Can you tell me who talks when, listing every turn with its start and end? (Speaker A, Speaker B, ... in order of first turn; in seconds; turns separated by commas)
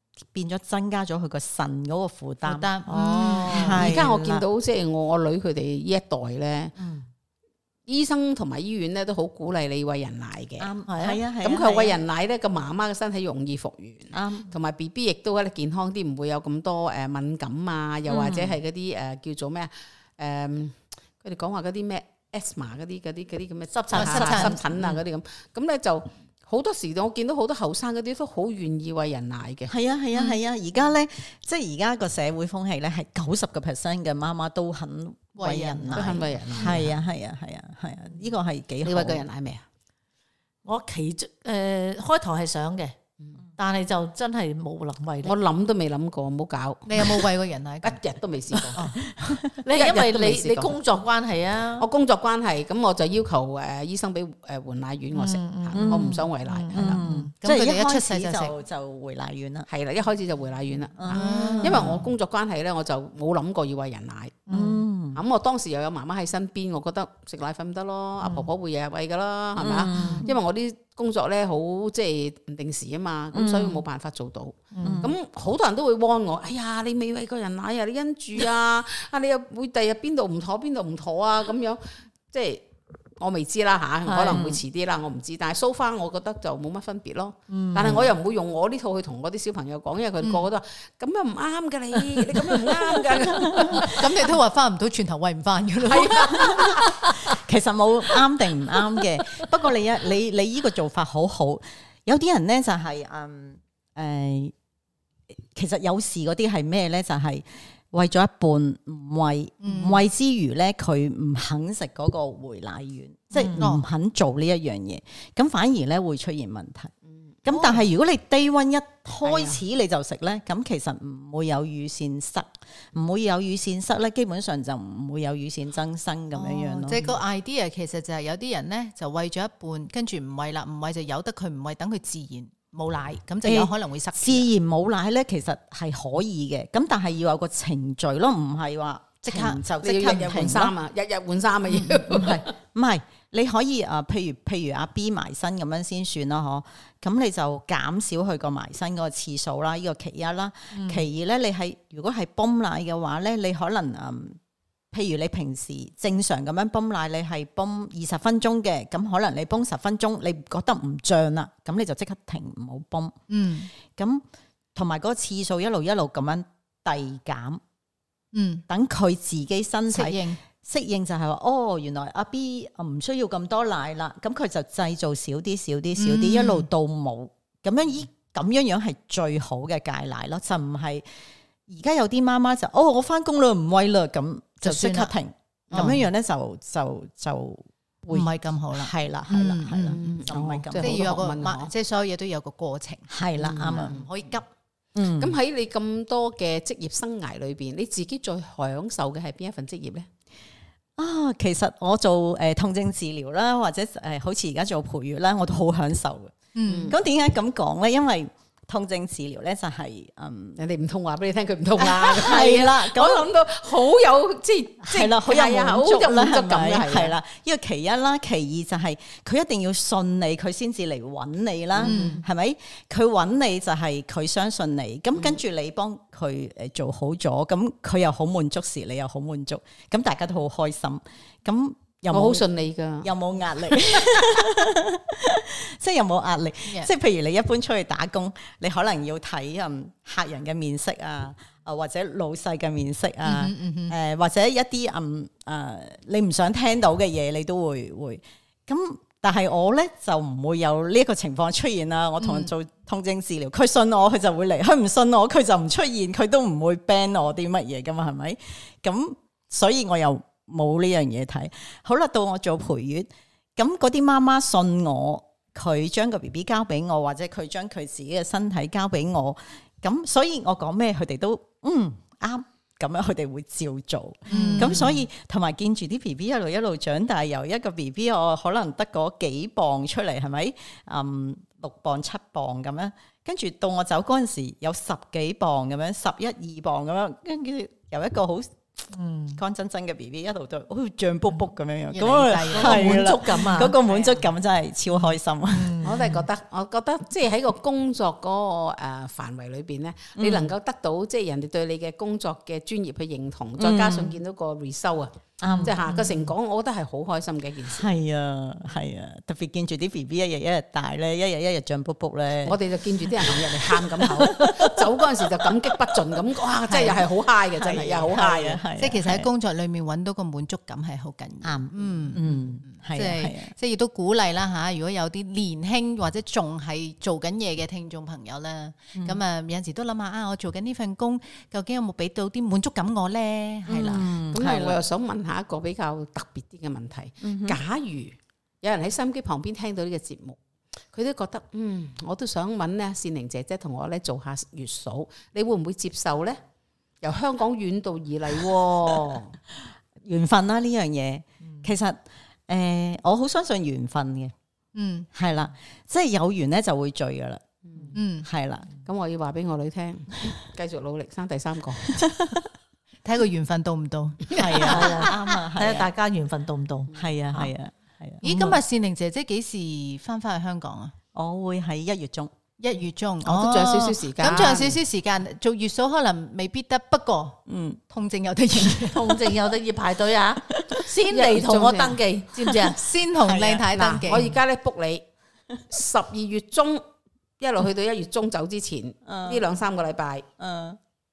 Speaker A: 0.2-4.4, Speaker B: 2.4-3.8, Speaker C: 2.9-3.8, Speaker D: 3.7-6.7, Speaker A: 6.8-7.0, Speaker D: 7.9-10.7, Speaker A: 10.6-12.0, Speaker C: 10.9-11.2, Speaker D: 11.4-29.7, Speaker A: 14.1-14.5, Speaker A: 18.1-18.6, Speaker C: 23.7-24.6, Speaker B: 23.9-24.6, Speaker A: 29.7-39.2, Speaker B: 35.4-36.2, Speaker D: 35.9-36.9, Speaker D: 38.8-39.6, Speaker C: 40.6-42.9, Speaker C: 43.6-45.3, Speaker D: 45.2-47.2, Speaker B: 46.9-48.0, Speaker D: 47.8-48.9, Speaker A: 49.1-49.4, Speaker C: 49.6-51.9, Speaker D: 49.7-50.8, Speaker D: 51.8-57.0, Speaker C: 55.1-57.3, Speaker A: 55.7-59.7, Speaker B: 57.4-58.5, Speaker D: 59.7-64.5, Speaker A: 61.0-62.1, Speaker B: 61.1-61.8, Speaker C: 61.3-62.0, Speaker C: 64.5-64.8, Speaker A: 64.5-65.2, Speaker D: 65.1-82.6, Speaker C: 68.2-68.5, Speaker A: 69.6-70.3, Speaker C: 69.9-70.2, Speaker A: 73.3-73.8, Speaker C: 74.7-75.1, Speaker A: 74.8-75.1, Speaker D: 83.2-94.0, Speaker C: 84.0-84.4, Speaker A: 84.3-84.6, Speaker C: 87.5-88.0, Speaker A: 93.2-93.9, Speaker B: 93.9-96.9, Speaker D: 95.8-96.8, Speaker A: 96.3-104.5, Speaker A: 105.5-116.9, Speaker B: 109.6-110.0, Speaker C: 113.3-113.6, Speaker B: 113.6-113.8, Speaker A: 117.4-127.0, Speaker B: 117.5-117.8, Speaker D: 119.2-119.6, Speaker B: 126.3-134.5, Speaker A: 133.4-140.7, Speaker B: 139.2-139.6, Speaker D: 139.8-142.4, Speaker B: 141.7-142.0, Speaker A: 142.1-154.4, Speaker C: 150.7-151.0, Speaker A: 154.9-163.1, Speaker B: 163.3-163.7, Speaker A: 163.9-164.2, Speaker A: 164.7-167.6, Speaker B: 168.3-168.6, Speaker A: 168.7-181.0, Speaker B: 169.9-170.4, Speaker B: 176.0-176.7, Speaker A: 181.7-191.1, Speaker B: 184.6-185.1, Speaker D: 185.7-186.0, Speaker B: 188.1-189.9, Speaker D: 189.9-191.7, Speaker B: 190.8-193.1, Speaker A: 193.1-193.9, Speaker D: 193.4-194.0, Speaker B: 193.6-194.4, Speaker A: 194.9-195.3, Speaker D: 195.2-200.1, Speaker A: 201.0-206.3, Speaker B: 206.5-206.9, Speaker D: 206.7-207.0, Speaker A: 206.9-210.6, Speaker D: 210.6-217.1, Speaker A: 211.8-213.2, Speaker A: 214.8-232.4, Speaker D: 221.8-222.2, Speaker B: 221.8-222.2, Speaker D: 232.1-233.1, Speaker A: 233.0-288.6, Speaker B: 243.2-243.9, Speaker B: 252.2-252.5, Speaker B: 274.3-274.9, Speaker C: 274.3-274.9, Speaker C: 288.9-289.4, Speaker A: 289.4-295.9, Speaker B: 291.9-293.0, Speaker C: 292.5-293.8, Speaker D: 293.7-294.2, Speaker C: 295.5-296.2, Speaker D: 295.8-307.8, Speaker A: 300.2-300.5, Speaker A: 303.6-304.2, Speaker A: 305.4-305.8, Speaker C: 305.5-306.2, Speaker A: 307.7-315.5, Speaker D: 312.4-318.6, Speaker B: 316.7-317.0, Speaker A: 317.6-319.3, Speaker B: 318.8-334.1, Speaker A: 321.4-323.5, Speaker A: 333.7-334.8, Speaker D: 333.9-340.4, Speaker A: 337.2-337.6, Speaker D: 340.9-346.4, Speaker D: 347.0-349.3, Speaker A: 350.0-354.3, Speaker B: 354.7-355.1, Speaker A: 355.1-357.4, Speaker B: 357.9-358.3, Speaker A: 358.2-358.7, Speaker D: 358.9-361.9, Speaker A: 361.9-362.5, Speaker B: 363.0-364.3, Speaker D: 364.3-365.1, Speaker A: 364.3-365.9, Speaker C: 364.6-367.5, Speaker A: 366.9-368.2, Speaker B: 368.2-370.9, Speaker C: 368.2-368.6, Speaker A: 371.1-372.3, Speaker B: 372.6-379.1, Speaker D: 373.2-374.8, Speaker A: 377.5-377.8, Speaker C: 378.9-382.8, Speaker D: 381.1-382.6, Speaker B: 382.7-384.3, Speaker A: 383.2-383.7, Speaker D: 383.7-385.0, Speaker D: 385.7-386.8, Speaker D: 387.4-390.3, Speaker A: 389.1-389.4, Speaker A: 390.4-390.8